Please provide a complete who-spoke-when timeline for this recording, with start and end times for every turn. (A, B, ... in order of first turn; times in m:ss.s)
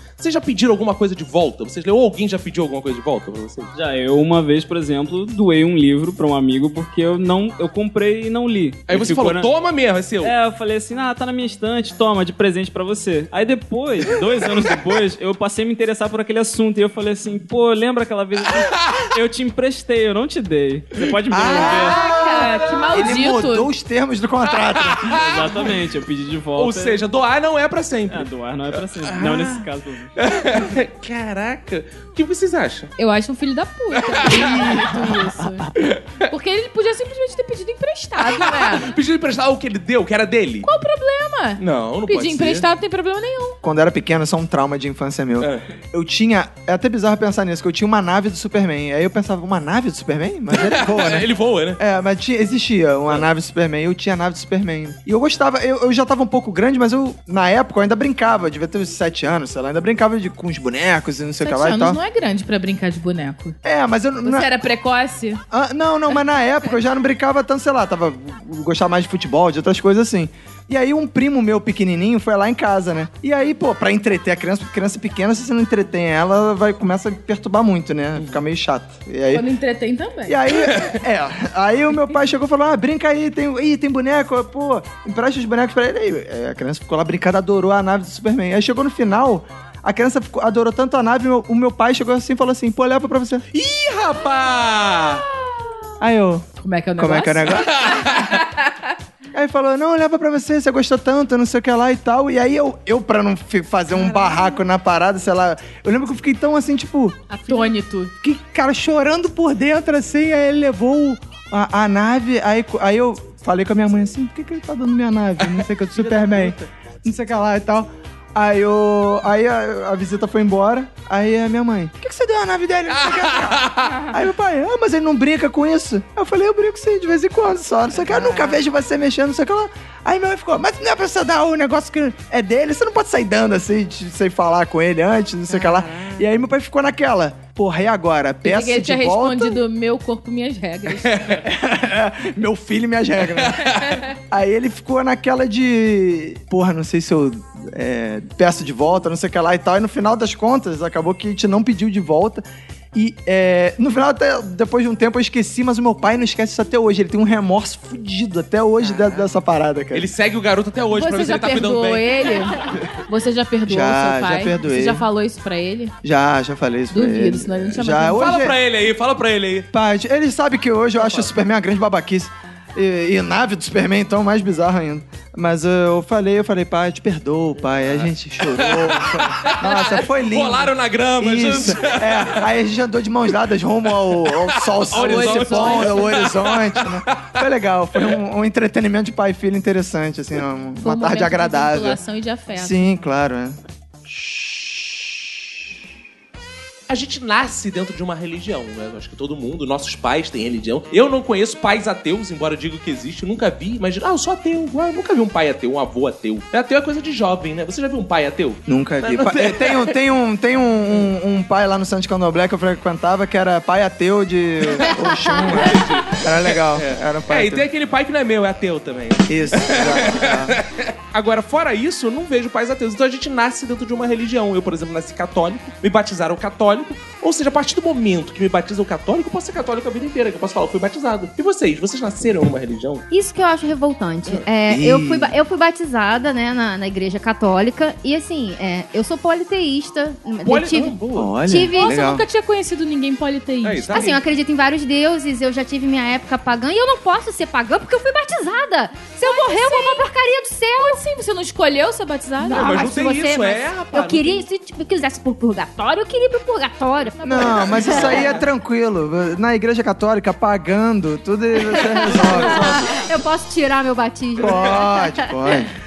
0:00.2-0:03.7 A
0:03.7-0:09.5 B
0:08.9-0:10.3 A
0:10.2-0:22.0 B
0:21.3-0:25.2 C
0:21.5-0:23.7 D
0:22.1-0:23.1 A
0:24.6-0:25.8 A
0:25.1-0:27.0 B
0:26.6-0:29.6 A
0:28.1-0:30.1 B
0:30.2-0:32.9 A
0:33.0-0:35.7 D
0:34.0-0:34.8 A
0:34.3-0:35.7 C
0:35.8-0:36.2 A
0:36.3-0:38.9 D
0:38.2-0:40.7 A
0:40.6-0:43.6 D
0:41.6-0:42.6 A
0:43.6-1:02.0 C
0:45.4-0:45.6 A
0:50.5-0:51.8 A
1:01.4-1:03.6 D
1:03.6-1:04.5 C
1:04.2-1:05.4 D
1:05.5-1:19.5 C
1:19.3-1:20.4 D
1:20.3-1:33.4 C
1:20.6-1:21.0 A
1:33.5-1:35.2 A
1:36.0-1:36.5 C
1:36.6-1:38.1 D
1:37.0-1:37.9 C
1:37.7-1:38.4 A
1:39.3-1:47.2 C
1:47.3-1:48.1 D
1:48.2-2:19.6 C
1:55.4-1:56.7 A
2:02.9-2:04.1 A
2:18.4-2:21.4 D
2:21.0-2:21.4 A
2:21.3-2:32.4 C
2:23.3-2:24.0 A
2:32.9-2:40.1 C
2:38.8-2:39.3 A
2:39.9-2:42.8 A
2:40.9-2:45.9 D
2:43.6-2:45.0 C
2:46.0-2:48.6 C
2:46.9-2:48.3 D
2:48.1-2:49.7 A
2:49.7-3:12.0 C
2:51.0-2:51.3 A
2:57.7-3:02.5 A
3:04.0-3:07.4 A
3:04.9-3:06.2 D
3:10.8-3:13.0 D
3:12.5-3:13.6 C
3:16.9-3:29.9 A
3:28.6-3:37.7 C
3:34.8-3:53.0 A
3:39.3-3:40.6 C
3:53.1-4:02.0 E
3:54.6-3:55.3 C
4:00.4-4:01.4 A
4:01.1-4:02.2 C
4:01.7-4:04.2 D
4:03.6-4:04.2 A
4:03.9-4:11.0 E
4:09.2-4:10.1 D
4:10.8-4:12.8 D
4:12.4-4:18.4 E
4:12.5-4:14.4 A
4:17.2-4:18.4 D
4:17.2-4:22.9 C
4:17.8-4:18.3 A
4:21.6-4:25.6 E
4:21.9-4:23.0 A
4:24.4-4:25.7 C
4:24.4-4:24.7 A